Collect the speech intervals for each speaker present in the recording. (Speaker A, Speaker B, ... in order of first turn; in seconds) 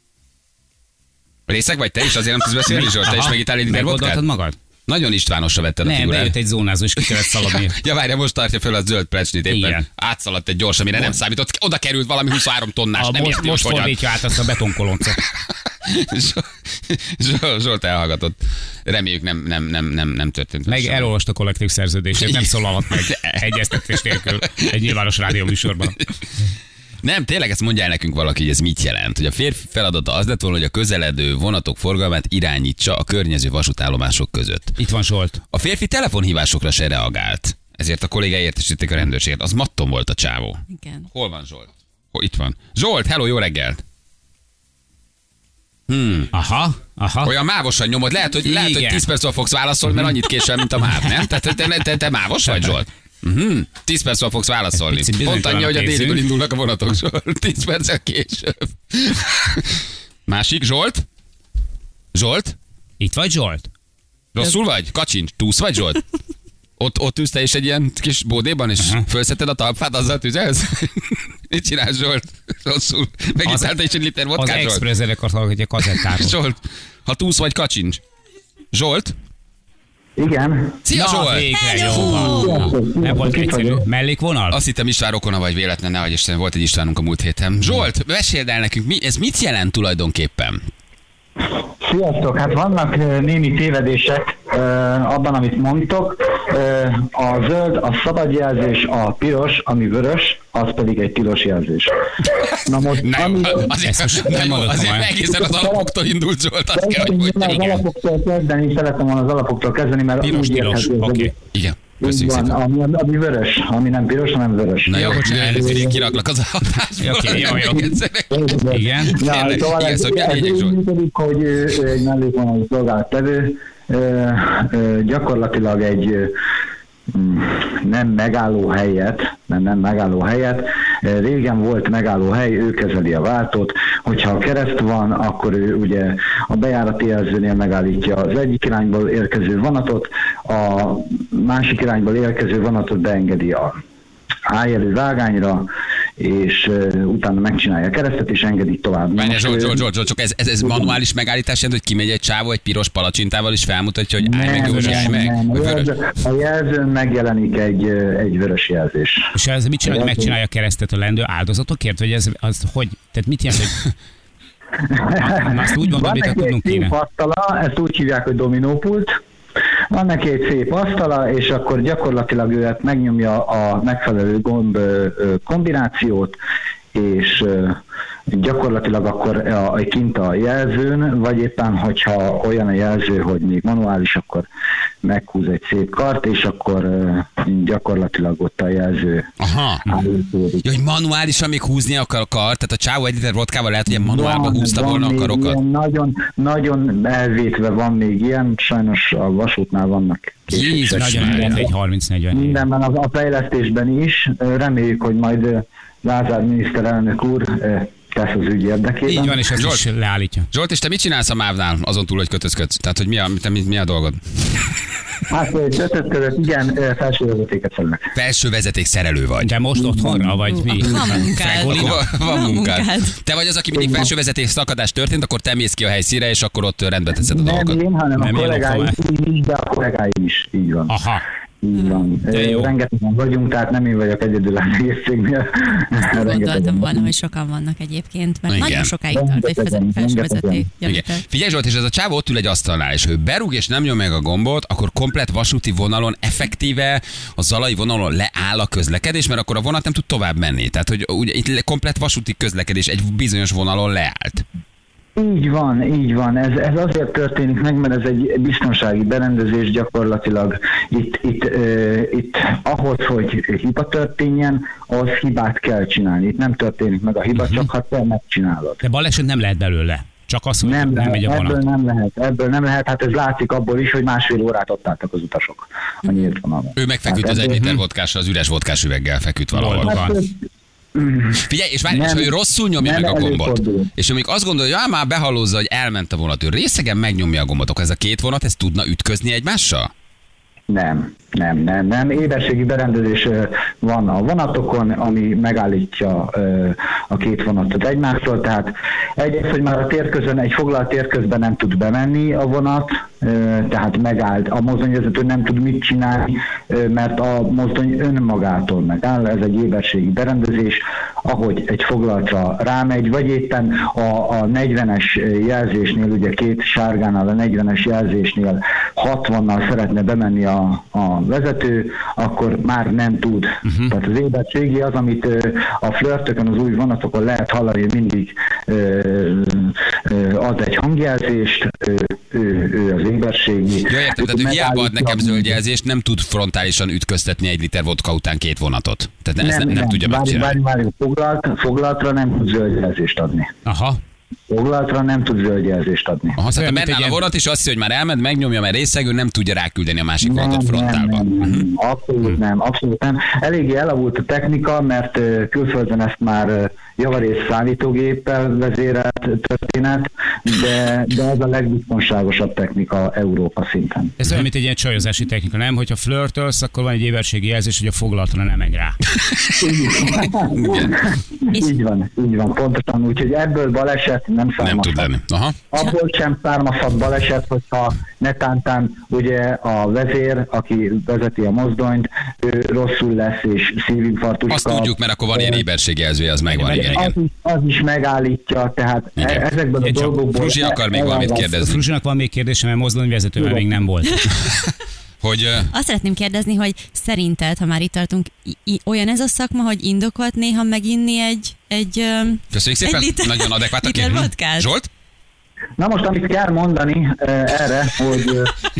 Speaker A: 1.5-4.2, 4.9-6.3, 7.0-14.0, 15.2-21.1, 22.2-24.8, 27.0-34.8, 35.5-40.6, 41.1-43.8, 45.9-46.3, 47.2-61.0, 62.1-62.6, 64.3-66.0, 66.8-74.8, 75.8-78.0, 78.7-79.2, 80.8-82.2, 84.5-90.6, 103.0-107.8, 111.5-112.5, 114.9-118.6, 119.1-120.8, 149.2-155.9, 189.4-190.0, 190.6-195.6, 200.5-201.6, 209.6-209.9, 210.5-214.7, 218.2-219.6, 221.7-227.8, 238.5-238.9, 240.8-254.4, 276.8-279.9, 281.4-289.9, 333.9-340.6, 346.4-351.6, 370.6-370.9, 374.6-375.7, 384.5-387.1, 389.2-391.8, 395.2-395.7, 402.5-404.9
Speaker B: 2.7-4.6, 5.8-7.8, 9.5-9.9, 12.9-15.2, 20.7-26.0, 34.8-35.4, 46.3-47.3, 48.4-49.0, 54.7-56.2, 63.0-63.7, 73.4-73.7, 74.4-76.4, 80.9-84.6, 103.8-105.1, 110.2-111.3, 114.9-115.9, 117.0-118.0, 118.7-119.2, 154.6-155.2, 159.3-163.9, 165.2-166.9, 200.9-202.7, 209.1-210.5, 219.4-222.1, 228.2-229.0, 230.9-231.2, 232.3-232.7, 267.3-267.7, 268.8-271.6, 277.6-277.8, 279.5-280.1, 323.6-323.9, 343.6-344.0, 346.5-347.2, 364.2-369.0, 386.5-387.1, 391.4-394.1
Speaker C: 40.7-41.1, 81.6-82.7, 220.5-223.2, 231.8-232.1, 236.0-241.2, 394.0-394.3, 395.7-404.7
Speaker D: 80.2-80.8, 82.1-83.9, 91.8-101.9, 102.7-103.7, 105.3-106.0, 106.7-111.3, 112.0-116.2, 117.8-126.3, 127.1-143.8, 144.5-145.7, 146.2-149.8, 150.6-150.9, 154.2-160.4, 164.9-169.1, 169.9-176.4, 176.9-177.8, 178.3-184.5, 185.0-189.3, 189.9-190.7, 193.9-201.7, 202.3-209.4, 215.3-218.1, 219.8-220.4, 223.7-224.1, 227.2-230.9, 231.6-237.1, 239.1-240.7, 255.2-268.8, 270.6-277.7, 279.8-280.4, 280.9-283.9, 290.7-335.6, 339.4-343.5, 344.5-346.4, 350.2-364.2, 369.6-375.1, 375.7-385.6, 386.8-391.6, 393.4-393.8, 405.8-408.5